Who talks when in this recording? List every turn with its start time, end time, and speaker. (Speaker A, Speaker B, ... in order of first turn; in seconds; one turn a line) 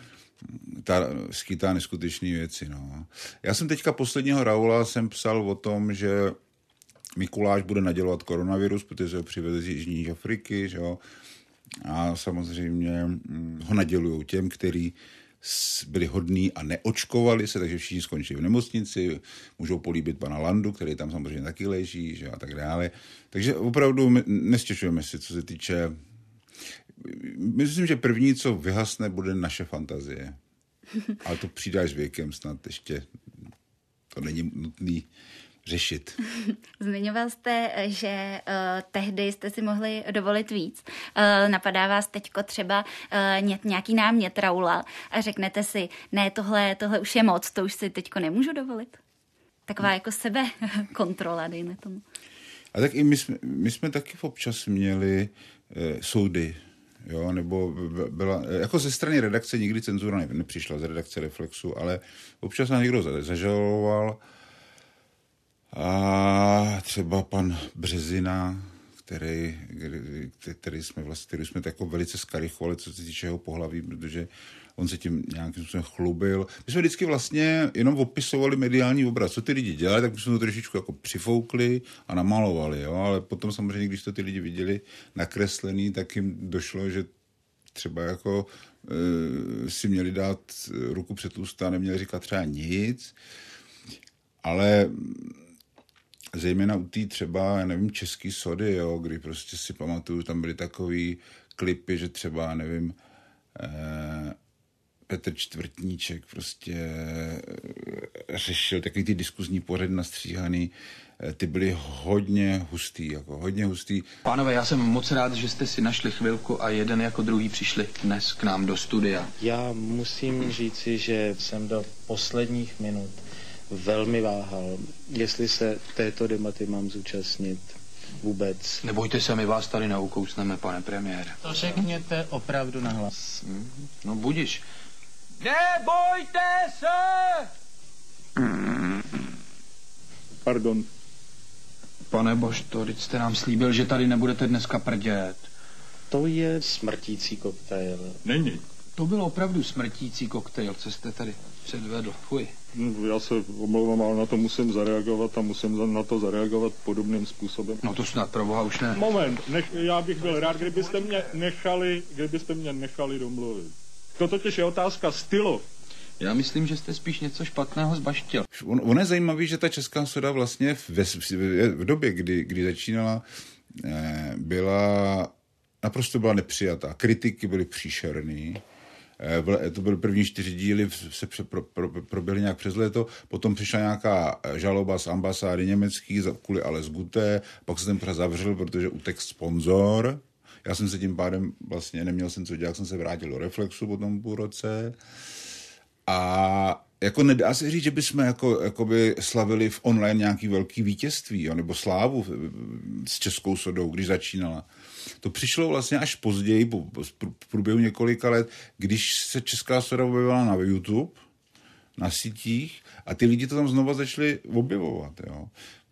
Speaker A: 0.5-6.4
Speaker A: 7.1-11.0
Speaker A: 11.8-26.0
Speaker A: 27.0-30.4
Speaker A: 31.2-33.1
Speaker A: 34.1-35.1
Speaker A: 35.6-36.2
Speaker B: 36.8-49.0
Speaker B: 49.7-52.0
Speaker A: 52.7-64.2
Speaker A: 65.7-87.1
Speaker A: 87.7-93.1
Speaker A: 94.4-95.4
Speaker A: 96.3-103.0
Speaker A: 103.5-104.4
Speaker A: 105.1-114.1
Speaker C: 114.2-119.3
Speaker D: 119.4-123.1
Speaker D: 123.7-127.6
Speaker D: 128.2-128.8
Speaker C: 128.8-131.4
Speaker C: 134.0-134.6
Speaker C: 135.7-136.2
Speaker E: 140.4-140.9
Speaker C: 142.1-145.4
Speaker D: 146.1-148.2
Speaker E: 148.2-148.6
Speaker C: 149.0-152.5
Speaker E: 152.7-157.8
Speaker C: 157.8-159.0
Speaker E: 158.9-165.6
Speaker C: 166.2-168.4
Speaker A: 168.5-178.6
Speaker A: 179.2-195.0
Speaker A: 196.1-204.7
Speaker A: 205.2-211.2
Speaker A: 212.0-215.5